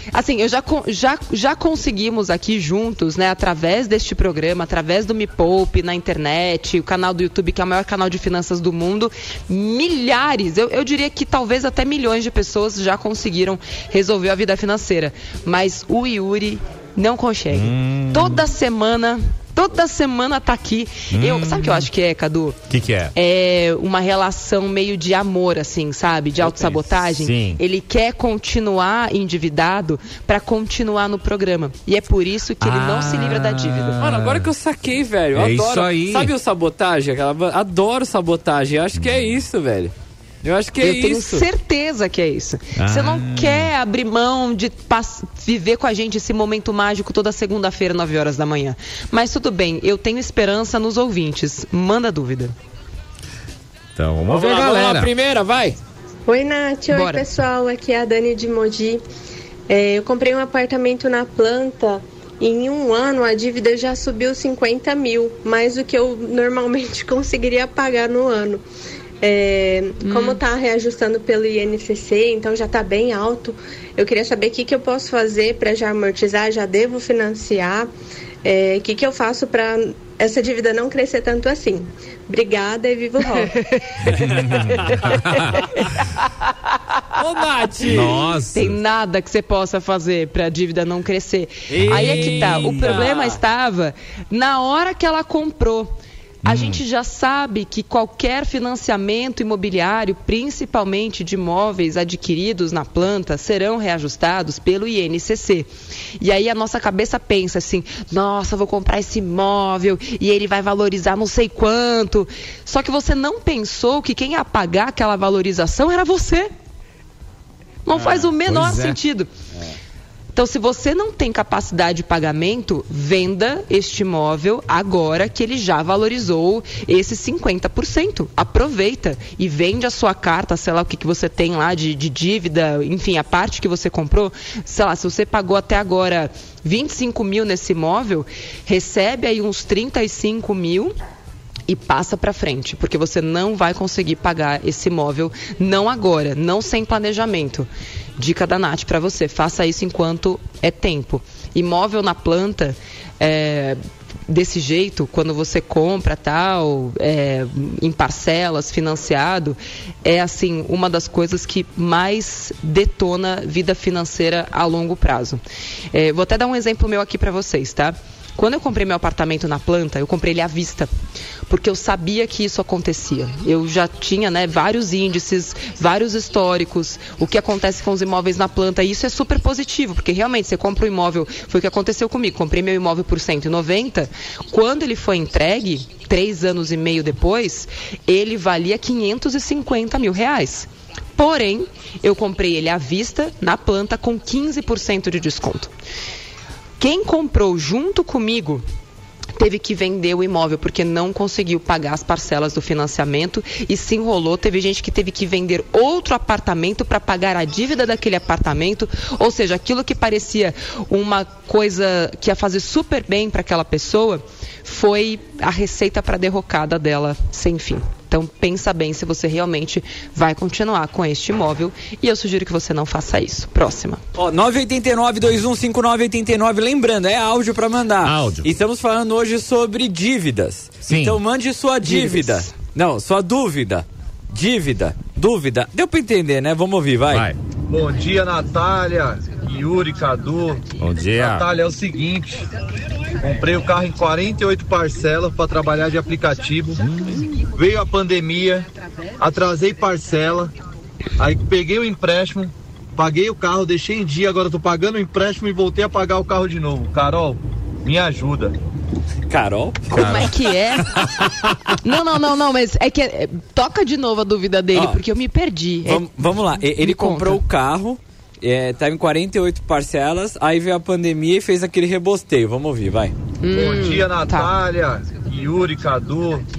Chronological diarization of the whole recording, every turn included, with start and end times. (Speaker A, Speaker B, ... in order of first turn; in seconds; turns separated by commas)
Speaker A: 0.1-22.6, Speaker B: 17.5-18.4, Speaker B: 21.1-21.9, Speaker B: 22.7-23.1, Speaker A: 23.1-34.0, Speaker B: 26.5-27.6, Speaker B: 32.6-34.5, Speaker C: 34.0-41.5, Speaker B: 35.3-36.3, Speaker B: 39.0-39.4, Speaker A: 40.8-52.5, Speaker B: 42.8-43.7, Speaker B: 54.0-55.1, Speaker C: 54.3-55.8, Speaker D: 56.3-59.0, Speaker A: 56.9-57.2, Speaker D: 59.7-68.6, Speaker D: 69.2-77.9, Speaker A: 70.0-70.4, Speaker D: 78.4-84.0, Speaker C: 84.1-85.8, Speaker B: 84.1-85.5, Speaker C: 87.1-88.3, Speaker B: 87.8-88.8, Speaker A: 88.5-95.9, Speaker C: 91.7-93.4, Speaker B: 91.8-93.0, Speaker B: 96.4-96.8, Speaker A: 96.5-105.7, Speaker A: 106.2-116.5, Speaker A: 117.8-119.3, Speaker C: 118.0-118.2, Speaker B: 118.4-119.0, Speaker A: 120.3-140.9, Speaker A: 141.7-165.4, Speaker A: 165.9-170.9, Speaker A: 171.5-195.7, Speaker A: 196.8-198.6, Speaker A: 199.3-224.0, Speaker C: 224.2-237.3, Speaker B: 228.0-228.5, Speaker B: 230.8-231.2, Speaker A: 231.8-232.5, Speaker B: 237.1-237.4, Speaker E: 237.7-242.5, Speaker B: 240.8-241.4, Speaker E: 243.2-246.8, Speaker B: 246.8-247.2, Speaker E: 247.5-248.7, Speaker E: 249.2-250.5, Speaker E: 251.2-258.5, Speaker C: 259.3-260.2, Speaker A: 259.9-261.1, Speaker B: 259.9-261.5, Speaker A: 261.8-267.4, Speaker C: 264.7-265.0, Speaker C: 265.8-273.1, Speaker A: 273.4-274.5, Speaker E: 273.5-276.4